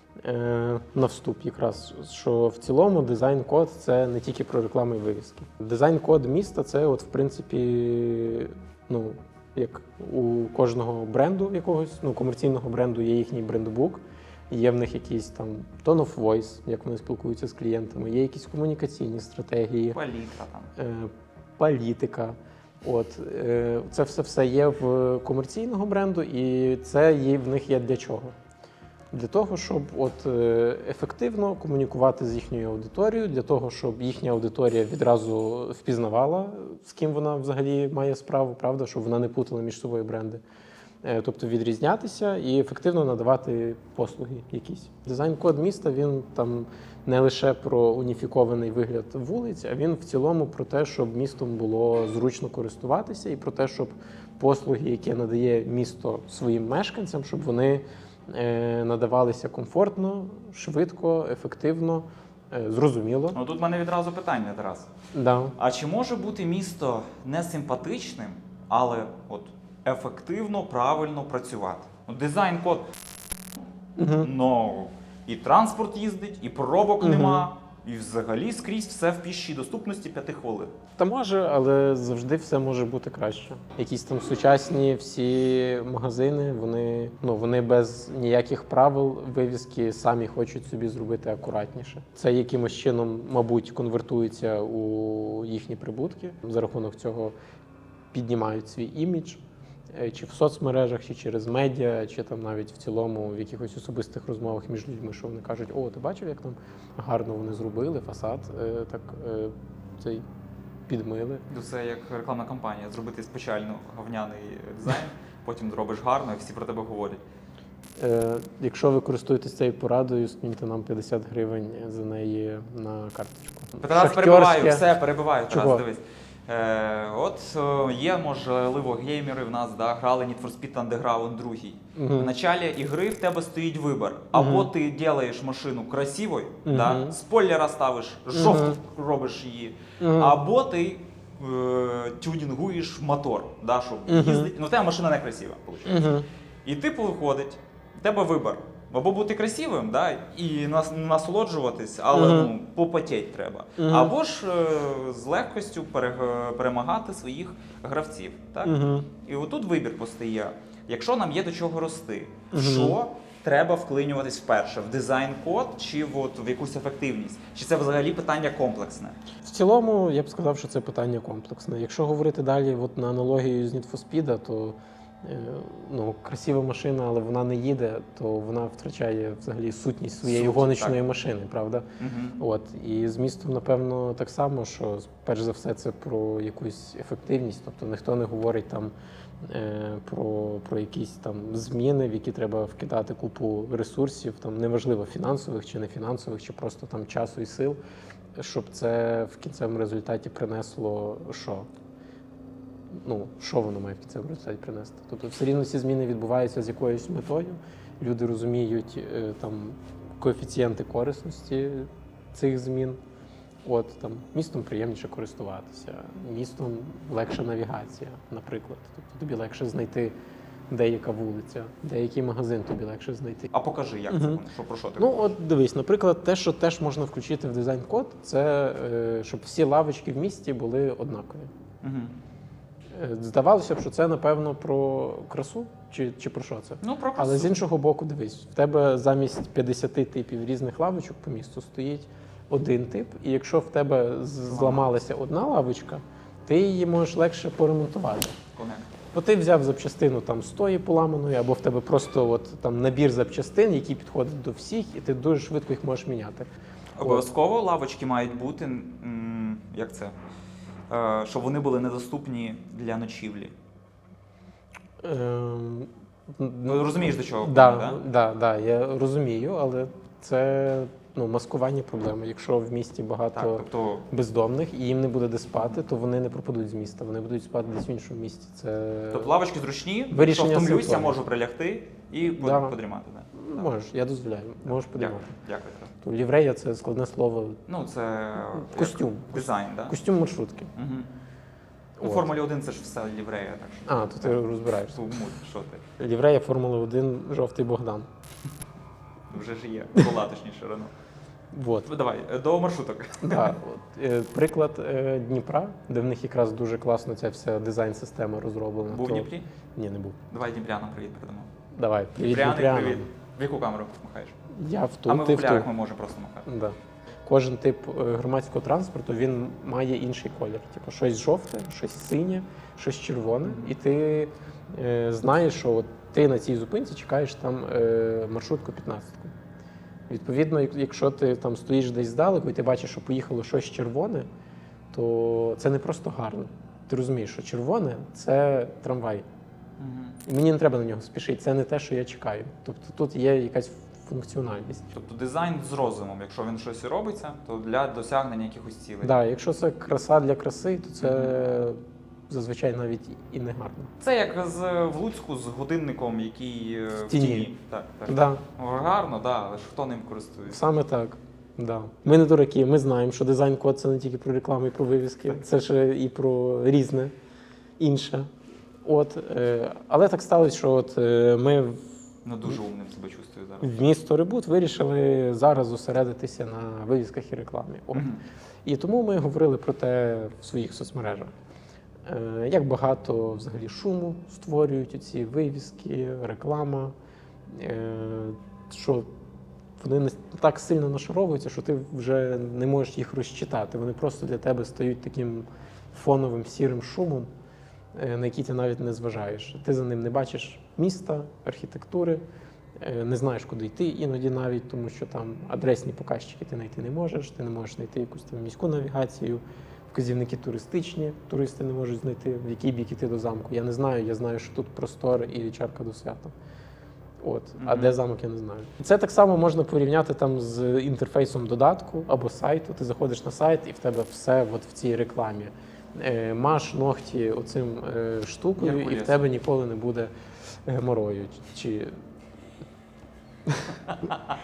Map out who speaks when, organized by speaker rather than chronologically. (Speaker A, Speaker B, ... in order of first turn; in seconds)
Speaker A: 0.2-20.0, 20.8-28.4, 29.1-40.4, 41.0-63.4, 65.1-65.6, 74.0-74.3, 77.0-77.5, 81.0-97.3, 98.1-99.4, 99.9-110.2, 110.9-111.4, 118.0-124.8, 125.5-125.8, 131.9-132.3, 134.3-134.7, 136.6-137.2, 138.3-138.8, 140.0-140.4, 144.1-144.5, 145.9-146.3, 152.1-152.5, 153.8-154.1, 158.6-159.1, 162.5-163.0, 169.4-197.8, 198.4-201.7, 202.9-213.0, 213.6-220.2, 220.7-223.5, 224.1-224.4, 225.0-231.5, 232.9-248.4, 249.1-256.5, 265.0-279.3, 280.1-281.2, 282.4-282.8, 283.3-285.4, 286.0-287.6, 288.5-290.7, 292.0-292.4, 293.9-295.0, 296.0-298.1, 301.5-301.9, 303.2-310.2, 311.7-313.1, 314.5-315.7, 316.4-329.3, 330.1-334.3, 334.9-339.2, 340.2-344.9, 349.0-353.9, 357.1-357.5, 358.1-358.4, 360.5-367.1, 367.8-368.3, 368.8-371.8, 373.6-378.1, 378.6-381.3, 382.1-386.9, 387.5-389.1, 389.8-397.3, 397.9-402.2, 402.8-416.3, 417.2-430.1, 430.6-432.0, 433.5-433.8
Speaker B: 19.9-20.7, 63.3-64.9, 65.6-72.9, 74.2-80.8, 111.5-117.2, 123.8-169.2, 180.2-181.0, 182.0-182.4, 223.5-225.3, 231.8-232.1, 236.8-237.5, 244.5-244.9, 248.6-248.9, 256.9-260.2, 260.9-263.5, 266.7-268.0, 273.3-274.1, 279.1-283.6, 284.9-285.9, 287.7-289.9, 290.8-291.1, 292.0-295.8, 299.3-300.9, 301.9-303.6, 308.9-309.4, 310.3-311.5, 312.2-314.4, 315.1-316.4, 339.8-340.2, 344.9-349.1, 351.0-351.4, 354.0-360.6, 372.2-373.7, 377.9-378.2, 417.6-418.0, 428.6-429.2